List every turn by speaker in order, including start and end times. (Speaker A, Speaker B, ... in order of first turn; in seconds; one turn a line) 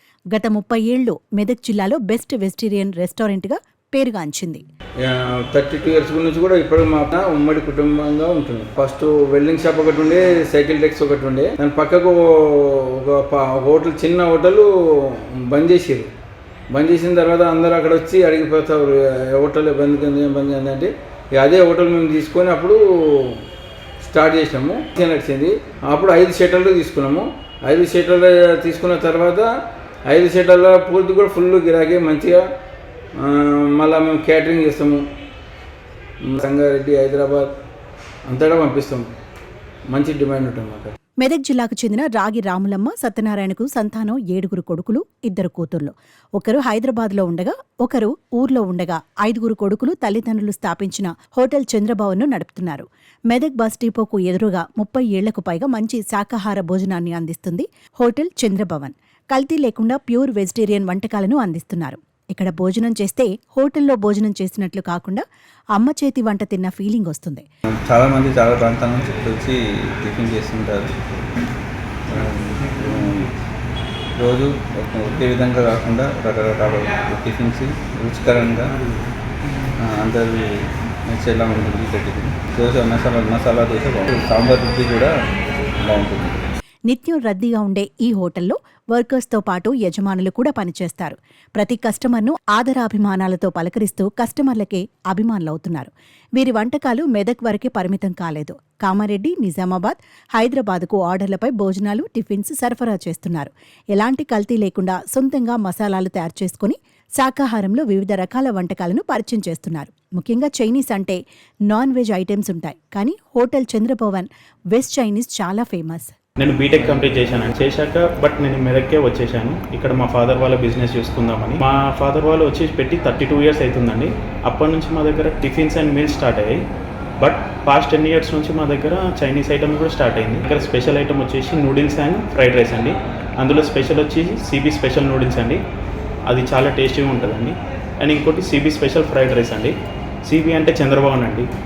Speaker A: 0.3-4.6
Speaker B: 5.0-16.1
Speaker B: 16.7-23.4
Speaker B: 24.0-29.5
Speaker B: 30.1-32.4
Speaker B: 33.2-35.0
Speaker B: 36.2-37.5
Speaker B: 38.3-39.0
Speaker B: 39.9-40.9
Speaker A: 41.2-65.2
Speaker A: 65.8-67.4
Speaker C: 67.9-70.9
Speaker C: 72.1-73.3
Speaker C: 74.2-78.8
Speaker C: 79.8-80.5
Speaker C: 81.1-85.1
Speaker C: 85.8-86.4
Speaker A: 86.9-116.1
Speaker D: 116.4-126.6
Speaker D: 127.2-135.6
Speaker D: 136.3-141.5